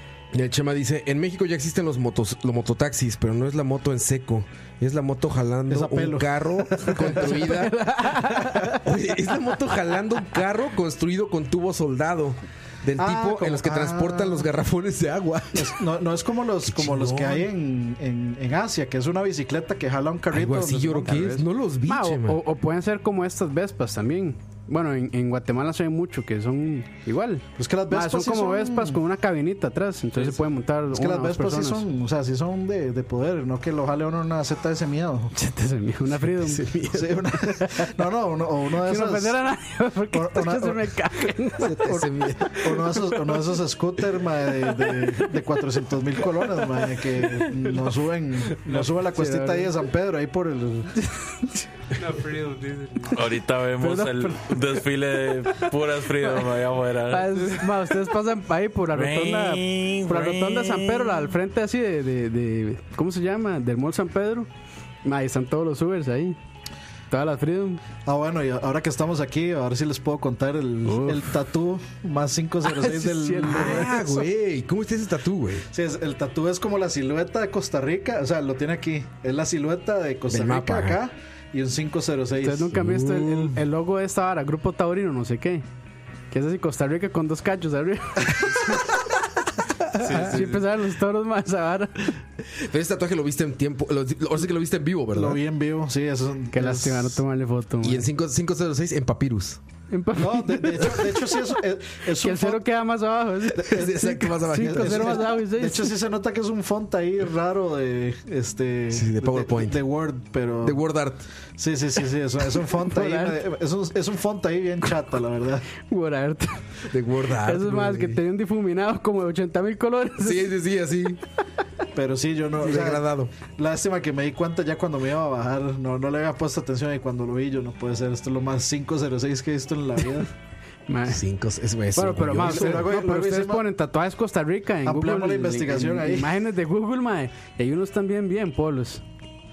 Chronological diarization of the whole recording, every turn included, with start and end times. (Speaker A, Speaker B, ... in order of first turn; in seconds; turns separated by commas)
Speaker A: 0.3-15.8, Speaker B: 5.7-7.3, Speaker C: 7.0-8.8, Speaker B: 13.0-14.5, Speaker B: 15.5-21.4, Speaker A: 16.6-17.5, Speaker A: 20.3-22.4, Speaker C: 21.9-31.8, Speaker B: 27.6-29.0, Speaker B: 30.9-35.3, Speaker C: 35.3-36.8, Speaker A: 36.4-37.3, Speaker B: 36.9-39.4, Speaker C: 37.5-37.9, Speaker C: 38.8-42.0, Speaker B: 40.1-40.9, Speaker A: 41.6-42.8, Speaker B: 42.6-50.9, Speaker C: 48.7-49.7, Speaker C: 51.0-53.1, Speaker D: 53.0-57.7, Speaker C: 53.8-54.6, Speaker C: 57.1-64.5, Speaker D: 58.9-61.3, Speaker C: 65.0-66.4, Speaker C: 67.1-67.8, Speaker B: 68.0-74.0, Speaker C: 70.8-71.3, Speaker C: 72.6-74.2, Speaker A: 73.4-75.7, Speaker B: 75.7-82.7, Speaker A: 80.3-81.0, Speaker C: 82.4-85.6, Speaker A: 82.7-83.6, Speaker C: 86.3-89.0, Speaker C: 89.9-92.2, Speaker A: 90.0-90.5, Speaker D: 90.0-90.5, Speaker A: 92.5-95.4, Speaker B: 95.1-97.2, Speaker C: 96.5-98.0, Speaker A: 97.8-99.6, Speaker C: 99.9-101.4, Speaker B: 100.2-102.6, Speaker C: 102.1-105.9, Speaker A: 103.5-105.3, Speaker B: 104.5-110.8, Speaker A: 108.9-109.8, Speaker A: 110.6-111.2, Speaker B: 111.6-115.7, Speaker C: 112.9-113.4, Speaker C: 115.8-116.6, Speaker A: 116.9-118.2, Speaker C: 117.3-120.5, Speaker A: 120.2-121.2, Speaker B: 121.9-130.3, Speaker A: 122.6-123.3, Speaker C: 130.9-131.2, Speaker A: 131.1-132.9, Speaker C: 131.9-139.0, Speaker B: 132.3-133.7, Speaker B: 134.8-136.4